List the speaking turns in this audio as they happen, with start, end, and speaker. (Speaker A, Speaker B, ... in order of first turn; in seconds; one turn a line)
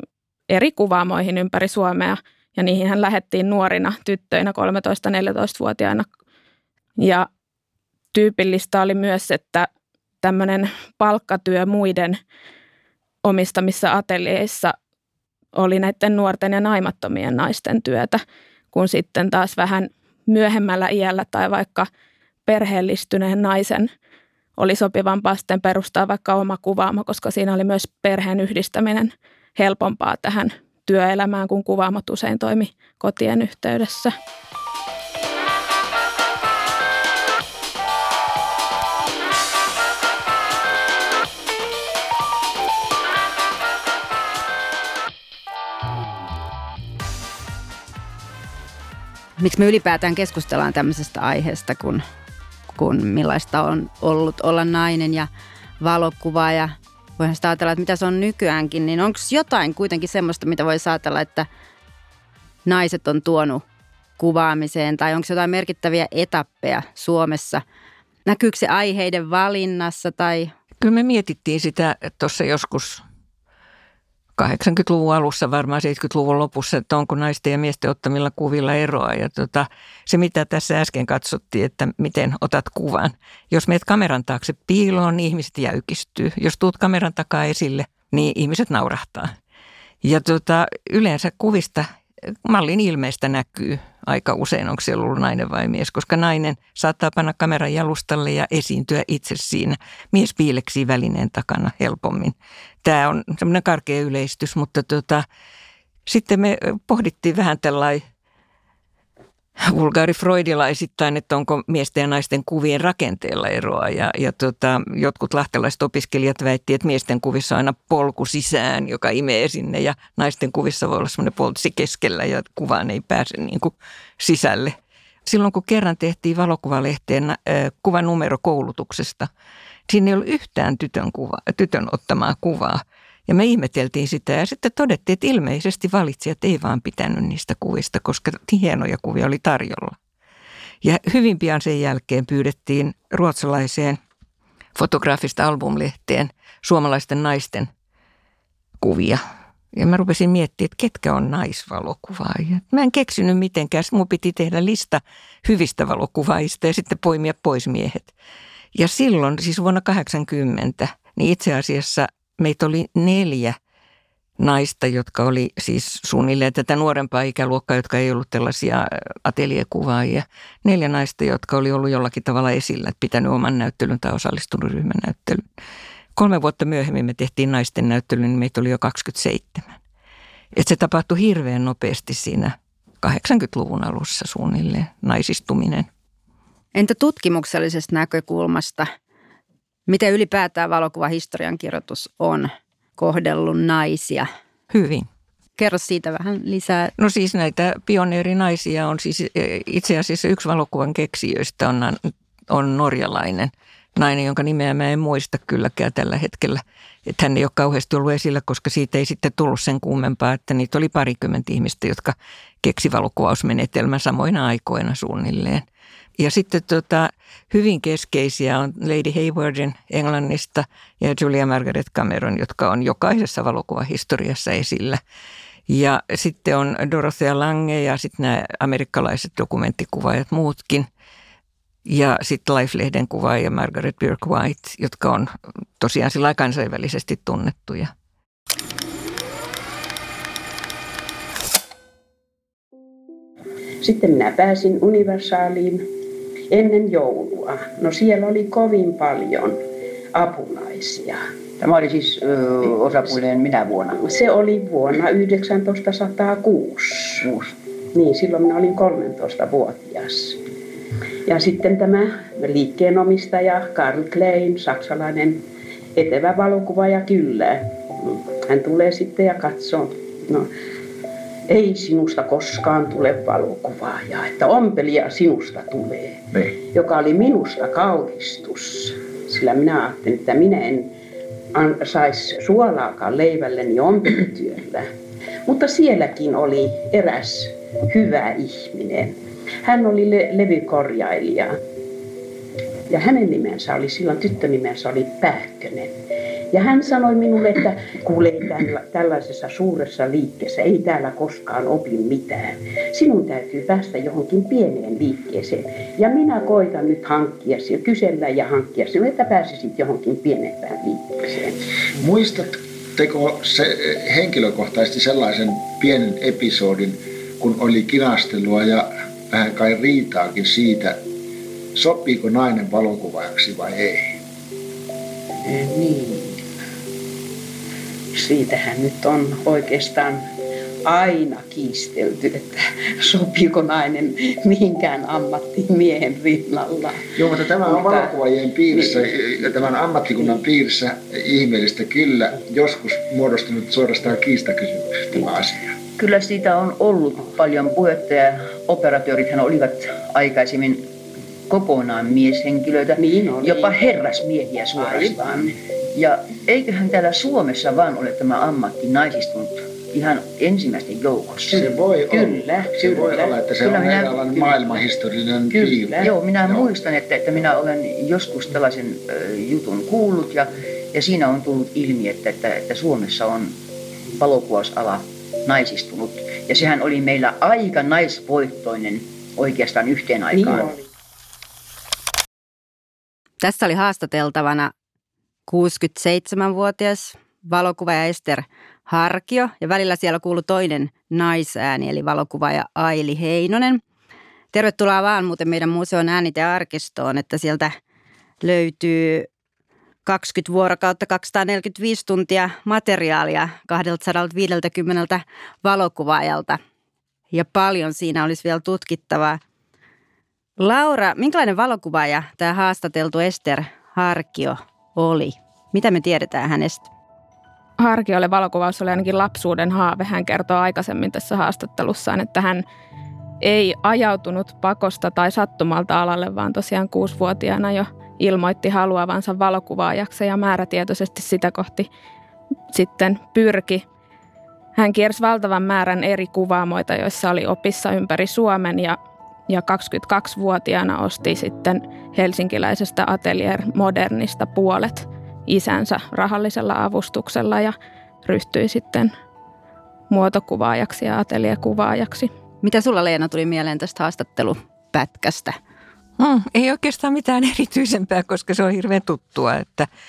Speaker A: 0.5-6.0
Speaker A: 7.0-7.3
Speaker A: 8.1-9.7
Speaker A: 10.2-12.2
Speaker A: 13.2-14.7
Speaker A: 15.5-18.2
Speaker A: 18.7-21.9
Speaker A: 22.4-23.9
Speaker A: 24.6-34.1
Speaker B: 49.4-52.0
Speaker B: 52.7-55.3
Speaker B: 55.8-61.5
Speaker B: 62.6-63.6
Speaker B: 64.2-67.6
Speaker B: 68.2-70.5
Speaker C: 70.8-73.0
Speaker C: 74.3-89.3
Speaker C: 90.0-105.2
Speaker C: 106.0-108.0
Speaker C: 109.6-124.7
Speaker C: 125.2-129.3
Speaker C: 129.9-140.0
Speaker C: 140.8-144.0
Speaker C: 144.7-147.7
Speaker C: 148.8-149.2
Speaker C: 149.7-158.1
Speaker C: 158.7-163.6
Speaker C: 164.4-175.4
Speaker C: 176.2-179.8
Speaker C: 180.5-185.9
Speaker B: 186.7-188.9
Speaker B: 189.9-194.3
Speaker C: 194.7-195.1
Speaker B: 195.6-196.9
Speaker C: 197.0-215.6
Speaker C: 216.2-225.0
Speaker C: 225.7-230.9
Speaker C: 231.8-237.9
Speaker D: 243.8-245.9
Speaker D: 246.5-249.6
Speaker D: 250.1-251.2
Speaker E: 251.6-254.0
Speaker D: 253.9-257.3
Speaker D: 257.9-260.4
Speaker D: 261.2-265.4
Speaker D: 265.9-270.5
Speaker D: 271.5-280.9
Speaker D: 281.5-284.9
Speaker D: 285.4-291.6
Speaker D: 292.9-295.9
Speaker D: 296.5-311.6
Speaker F: 311.9-321.0
Speaker F: 321.7-324.2
Speaker D: 325.4-326.4
Speaker D: 328.1-330.3
Speaker D: 330.8-338.1
Speaker F: 337.1-345.8
Speaker D: 338.7-340.4
Speaker E: 346.0-350.9
Speaker E: 351.5-361.7
Speaker D: 352.9-353.8
Speaker D: 354.7-355.5
Speaker F: 361.5-366.7
Speaker D: 362.1-363.4
Speaker E: 363.6-364.5
Speaker D: 365.5-366.1
Speaker E: 366.0-373.6
Speaker E: 374.1-380.8
Speaker D: 380.3-380.9
Speaker B: 383.4-384.7
Speaker B: 385.5-393.8
Speaker B: 394.5-397.7
Speaker B: 398.4-399.3
Speaker B: 400.1-406.6
Speaker B: 407.3-409.4
Speaker B: 410.6-416.9
Speaker A: 417.8-422.6
Speaker A: 423.4-431.9
Speaker A: 432.7-433.8
Speaker A: 434.8-439.0
Speaker A: 439.5-449.1
Speaker A: 450.1-452.3
Speaker B: 452.6-455.6
Speaker C: 456.2-459.9